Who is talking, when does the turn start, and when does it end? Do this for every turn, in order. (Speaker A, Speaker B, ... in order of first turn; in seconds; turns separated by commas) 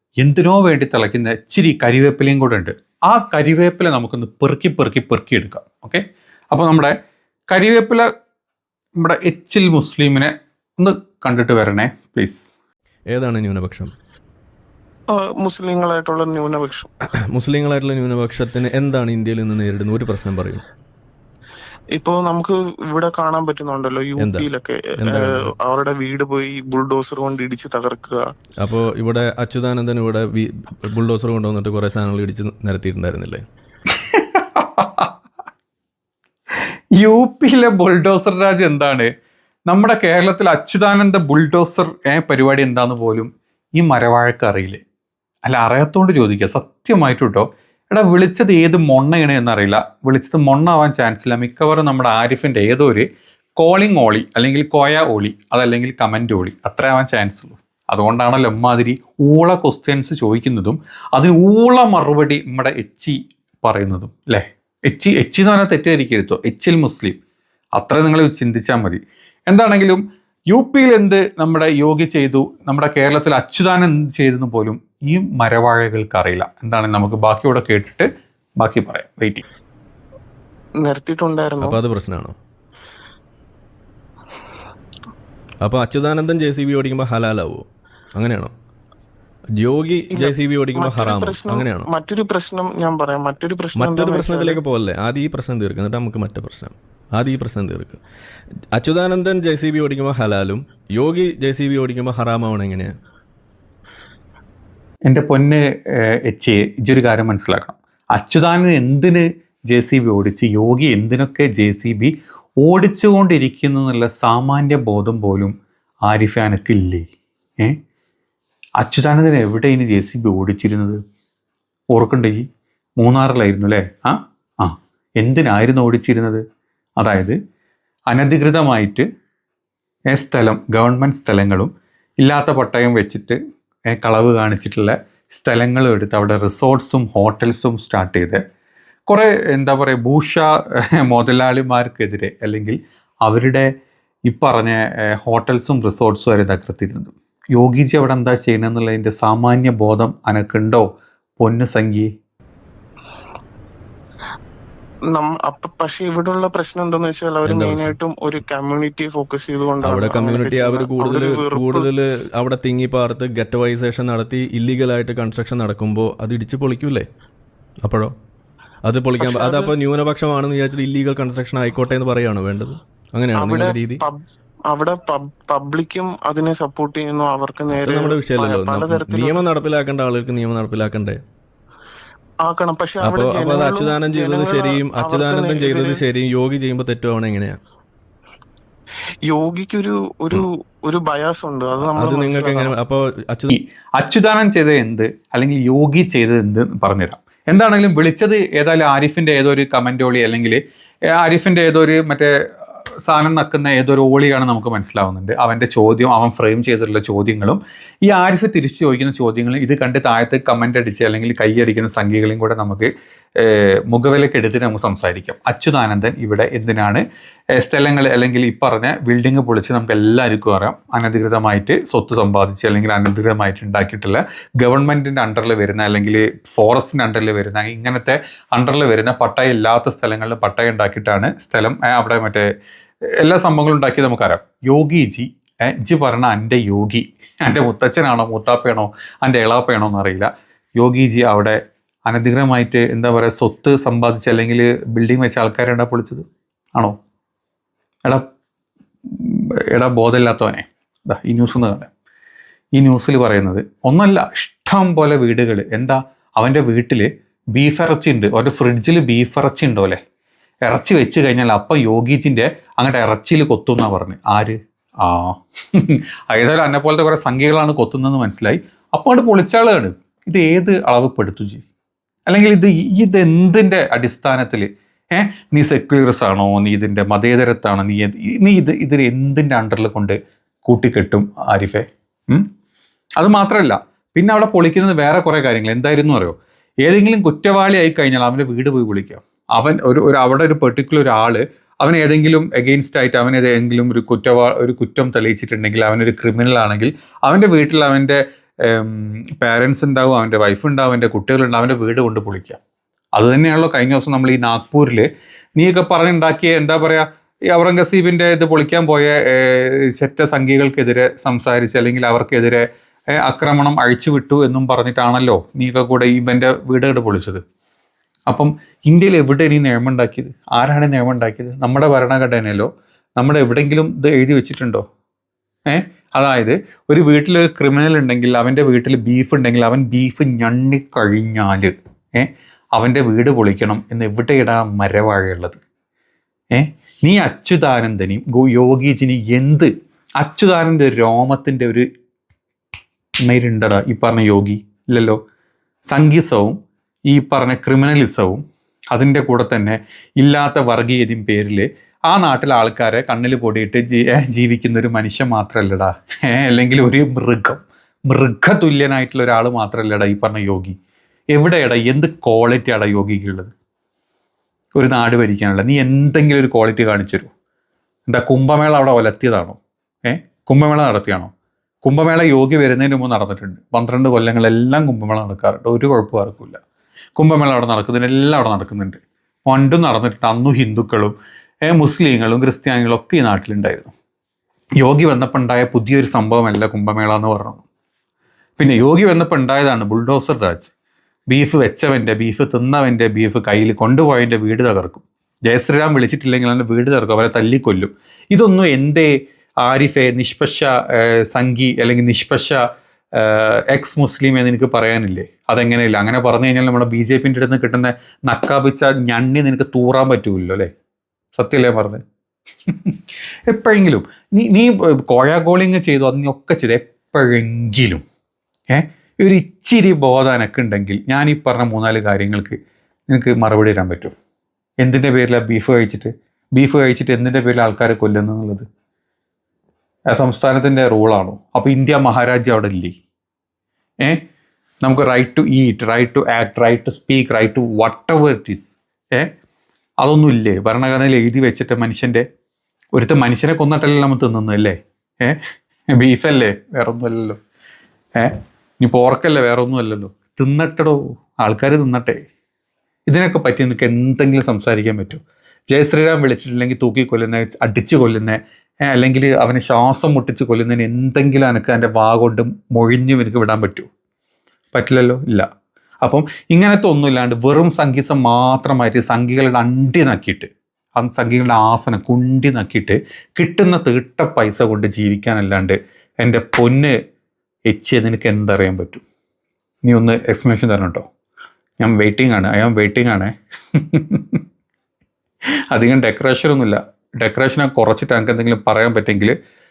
Speaker A: 0.2-6.9, Speaker A: 7.5-8.1, Speaker A: 9.0-12.5, Speaker B: 13.1-13.9, Speaker C: 15.2-16.9, Speaker B: 17.3-20.6, Speaker C: 21.9-28.2, Speaker B: 24.2-24.5, Speaker B: 25.0-25.5, Speaker B: 28.6-33.4, Speaker A: 33.9-35.1, Speaker A: 37.0-39.1, Speaker A: 39.7-44.8, Speaker A: 45.5-53.0, Speaker A: 53.6-67.2, Speaker A: 67.8-78.1, Speaker A: 78.6-79.4, Speaker C: 80.8-81.8, Speaker B: 81.6-82.3, Speaker B: 85.6-88.5, Speaker B: 89.6-91.9, Speaker C: 90.1-94.6, Speaker B: 93.7-98.0, Speaker B: 98.8-102.9, Speaker A: 105.0-115.5, Speaker A: 116.0-117.1, Speaker A: 118.8-121.0, Speaker A: 121.9-122.4, Speaker A: 123.0-126.4, Speaker A: 127.0-127.3, Speaker A: 128.1-129.0, Speaker A: 130.1-133.4, Speaker A: 133.9-138.4, Speaker A: 139.1-143.7, Speaker A: 144.3-150.9, Speaker A: 151.4-152.1, Speaker C: 155.1-161.9, Speaker B: 157.4-158.0, Speaker B: 159.8-167.1, Speaker B: 167.8-168.1, Speaker B: 168.8-174.0, Speaker C: 169.2-169.7, Speaker C: 173.3-174.2, Speaker C: 174.7-179.4, Speaker B: 177.7-181.2, Speaker C: 182.5-186.0, Speaker B: 183.0-187.6, Speaker C: 189.3-192.7, Speaker B: 191.9-193.5, Speaker A: 193.5-200.6, Speaker A: 201.1-202.3, Speaker A: 203.0-212.9, Speaker A: 213.4-217.0, Speaker A: 217.6-232.4, Speaker A: 233.2-246.9, Speaker A: 249.1-251.9, Speaker A: 252.7-260.0, Speaker A: 260.6-271.6, Speaker A: 272.3-282.5, Speaker A: 283.2-302.6, Speaker A: 303.1-305.1, Speaker A: 305.6-312.6, Speaker A: 313.2-317.4, Speaker A: 318.3-324.8, Speaker A: 325.7-335.6, Speaker A: 336.5-341.8, Speaker A: 343.2-345.2, Speaker A: 345.9-346.6, Speaker A: 347.1-348.4, Speaker A: 348.9-360.7, Speaker A: 361.3-363.5, Speaker A: 364.8-367.3, Speaker A: 368.1-371.3, Speaker A: 371.8-376.6, Speaker A: 377.1-381.1, Speaker A: 381.6-383.9, Speaker A: 384.8-387.6, Speaker A: 388.6-390.7, Speaker A: 391.3-399.1, Speaker A: 399.6-402.6, Speaker A: 403.2-410.7, Speaker A: 411.3-412.0, Speaker A: 412.7-413.0, Speaker A: 413.5-418.0, Speaker A: 418.7-422.6, Speaker A: 423.1-424.1, Speaker A: 424.8-428.6, Speaker A: 430.1-432.9, Speaker A: 434.8-439.3, Speaker A: 440.0-442.2, Speaker A: 442.9-445.4, Speaker A: 445.9-447.4, Speaker A: 448.2-452.2, Speaker A: 453.1-463.9, Speaker A: 464.7-465.5, Speaker A: 466.0-476.9, Speaker A: 477.7-479.0, Speaker A: 479.8-481.0, Speaker A: 481.8-484.4, Speaker A: 485.7-489.3